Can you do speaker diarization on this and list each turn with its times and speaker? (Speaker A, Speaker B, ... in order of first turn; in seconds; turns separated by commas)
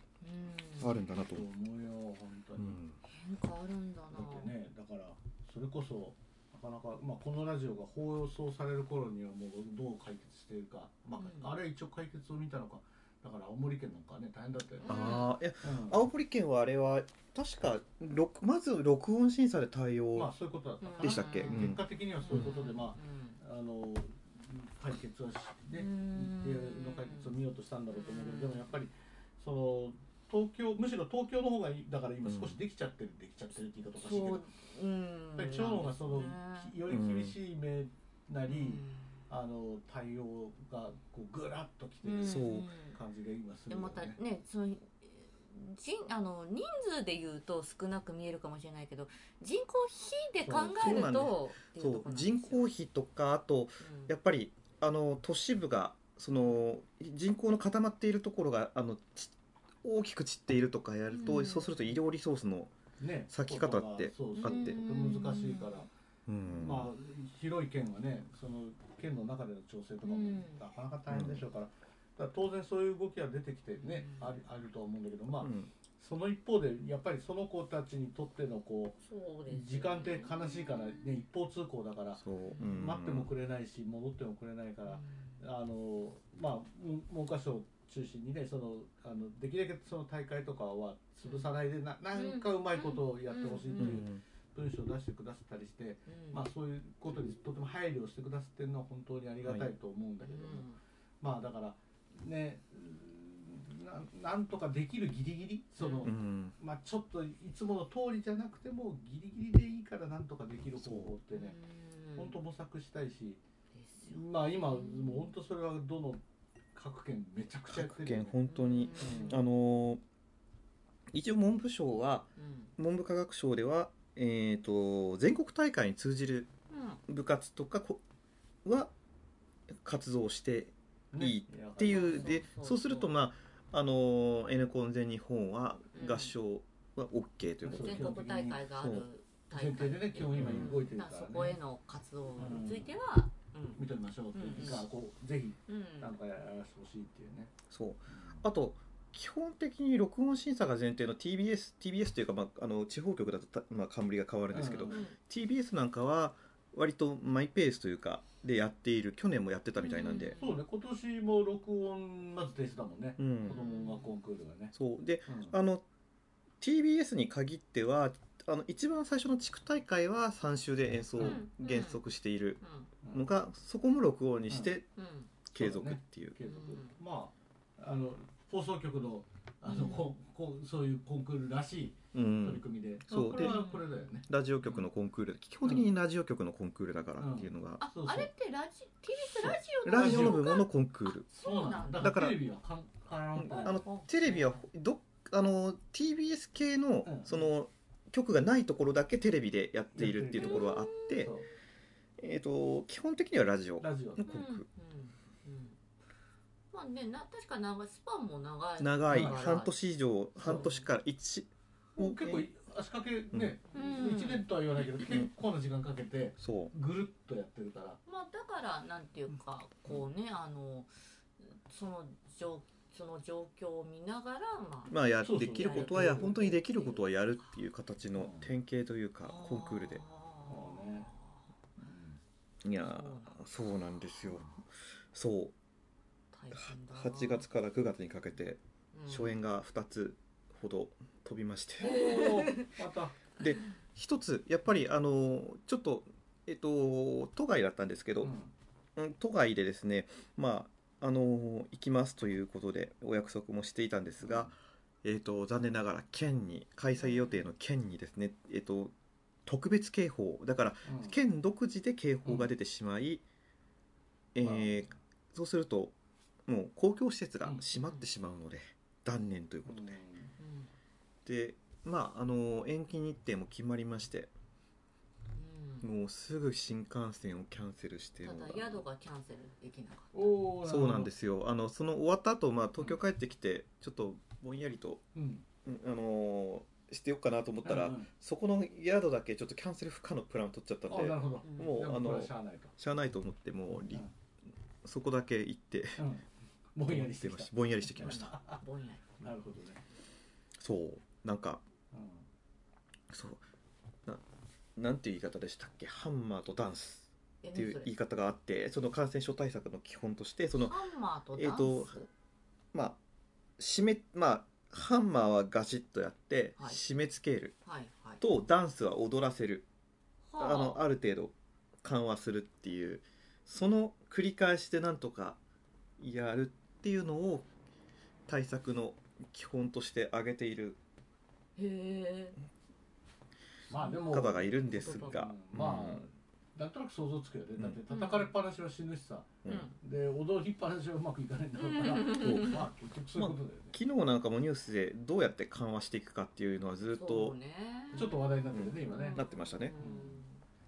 Speaker A: 0.2-1.0, Speaker B: 0.8-1.5, Speaker C: 1.1-2.8, Speaker B: 2.6-3.0, Speaker A: 3.1-4.5, Speaker C: 4.1-16.0, Speaker A: 11.2-11.6, Speaker A: 14.8-15.2, Speaker B: 14.9-20.3, Speaker C: 20.1-34.5, Speaker A: 20.8-23.4, Speaker B: 21.0-22.5, Speaker A: 25.7-27.4, Speaker A: 27.9-28.7, Speaker B: 32.2-32.6, Speaker A: 34.0-36.8, Speaker C: 35.4-44.2, Speaker B: 36.9-37.4, Speaker A: 38.5-39.2, Speaker A: 42.0-43.0, Speaker B: 42.2-42.7, Speaker A: 43.7-52.6, Speaker B: 50.5-62.7, Speaker A: 53.8-54.1, Speaker A: 61.1-61.9, Speaker C: 63.0-65.9, Speaker B: 63.3-64.8, Speaker A: 64.3-65.8, Speaker B: 66.3-66.9, Speaker C: 66.5-100.7, Speaker A: 70.0-70.6, Speaker B: 71.1-71.5, Speaker A: 73.8-74.4, Speaker B: 75.4-75.7, Speaker A: 79.0-81.0, Speaker B: 82.2-83.3, Speaker A: 84.9-85.4, Speaker A: 92.1-94.0, Speaker B: 93.8-94.2, Speaker A: 96.1-96.5, Speaker A: 100.2-100.8, Speaker C: 101.2-111.6, Speaker A: 105.8-106.1, Speaker B: 106.0-106.5, Speaker B: 110.8-111.1, Speaker A: 111.3-112.4, Speaker C: 112.2-113.4, Speaker A: 113.7-115.3, Speaker C: 114.0-116.2, Speaker C: 116.7-118.4, Speaker B: 117.7-120.0, Speaker A: 118.5-119.4, Speaker C: 119.0-119.4, Speaker B: 121.1-126.5, Speaker A: 122.4-122.7, Speaker A: 126.7-127.0, Speaker B: 127.1-128.0, Speaker B: 128.6-128.9, Speaker B: 129.8-138.1, Speaker C: 131.1-132.4, Speaker A: 131.9-133.1, Speaker A: 135.9-136.3, Speaker C: 137.6-138.7, Speaker A: 137.7-144.9, Speaker B: 138.8-139.1, Speaker C: 139.5-141.6, Speaker B: 140.4-140.7, Speaker C: 142.4-142.9, Speaker C: 143.8-147.5, Speaker A: 145.7-146.1, Speaker B: 147.7-160.4, Speaker C: 148.1-148.4, Speaker C: 154.5-155.1, Speaker A: 154.9-155.2, Speaker A: 159.8-160.6, Speaker C: 160.4-164.8, Speaker B: 163.2-163.6, Speaker A: 163.4-164.1, Speaker B: 164.7-165.8, Speaker C: 165.3-165.6, Speaker B: 166.6-172.6, Speaker C: 171.2-171.5, Speaker A: 171.2-172.0, Speaker A: 172.6-172.9, Speaker C: 173.0-173.3, Speaker B: 173.1-174.8, Speaker C: 174.5-174.8, Speaker A: 175.0-175.3, Speaker B: 175.5-176.3, Speaker C: 175.5-184.9, Speaker A: 176.4-176.9, Speaker A: 179.7-180.1, Speaker B: 182.1-183.6, Speaker A: 183.3-184.1, Speaker B: 184.3-187.8, Speaker C: 185.6-185.9, Speaker C: 187.2-188.3, Speaker A: 187.8-192.2, Speaker C: 189.3-190.4, Speaker B: 189.8-191.3, Speaker C: 191.4-193.8, Speaker B: 192.0-192.4, Speaker B: 193.4-201.3, Speaker A: 193.5-194.7, Speaker C: 197.0-197.4, Speaker C: 199.9-201.5, Speaker A: 200.4-201.3, Speaker B: 202.2-204.7, Speaker C: 203.8-204.3, Speaker A: 204.2-205.8, Speaker A: 206.7-209.7, Speaker B: 208.8-212.5, Speaker C: 209.1-209.4, Speaker C: 210.4-210.7, Speaker A: 210.4-210.9, Speaker C: 212.0-218.0, Speaker A: 213.7-214.5, Speaker B: 216.4-216.7, Speaker A: 218.1-227.6, Speaker B: 224.9-230.0, Speaker C: 225.2-226.4, Speaker C: 228.2-228.5, Speaker A: 229.2-231.4, Speaker C: 230.5-231.1, Speaker C: 231.8-232.2, Speaker B: 232.6-234.5, Speaker A: 232.8-233.4, Speaker B: 235.1-235.6, Speaker A: 236.3-237.5, Speaker B: 236.5-242.0, Speaker A: 238.9-239.4, Speaker C: 241.8-243.2, Speaker A: 241.8-242.7, Speaker B: 243.4-248.3, Speaker C: 248.2-248.5, Speaker B: 249.0-258.9, Speaker C: 254.2-254.5, Speaker A: 257.0-257.4, Speaker B: 259.5-263.2, Speaker C: 260.9-261.2, Speaker C: 262.2-262.5, Speaker B: 264.3-265.9, Speaker C: 264.4-265.0, Speaker B: 266.5-270.0, Speaker A: 267.8-268.1, Speaker C: 269.7-270.4, Speaker A: 270.4-270.7, Speaker B: 271.2-274.3, Speaker A: 275.4-275.9, Speaker B: 275.8-278.8, Speaker A: 278.2-280.4, Speaker C: 280.1-281.1, Speaker B: 280.6-285.0, Speaker C: 285.1-285.4, Speaker B: 285.6-294.0, Speaker C: 287.6-288.1, Speaker C: 290.9-292.8, Speaker A: 291.4-291.8, Speaker B: 294.8-296.1, Speaker C: 296.0-298.6, Speaker B: 296.9-298.3, Speaker A: 298.0-299.1, Speaker C: 299.2-299.8, Speaker B: 300.6-301.6, Speaker C: 301.9-302.2, Speaker B: 303.1-303.4, Speaker B: 304.8-310.8, Speaker A: 307.4-307.9, Speaker A: 310.6-312.1, Speaker B: 311.4-312.0, Speaker B: 312.7-313.0, Speaker B: 313.6-317.6, Speaker A: 317.6-318.2, Speaker B: 318.2-319.7, Speaker A: 320.3-320.8, Speaker B: 320.4-325.4, Speaker B: 326.0-327.5, Speaker B: 328.3-330.8, Speaker A: 331.6-332.4, Speaker C: 333.7-343.8, Speaker A: 333.8-335.2, Speaker B: 334.1-336.0, Speaker A: 337.9-338.3, Speaker A: 339.5-339.8, Speaker A: 341.6-342.6, Speaker B: 342.1-342.6, Speaker B: 343.1-347.4, Speaker A: 346.9-350.4, Speaker C: 347.9-349.2, Speaker B: 348.5-349.8, Speaker C: 349.8-350.2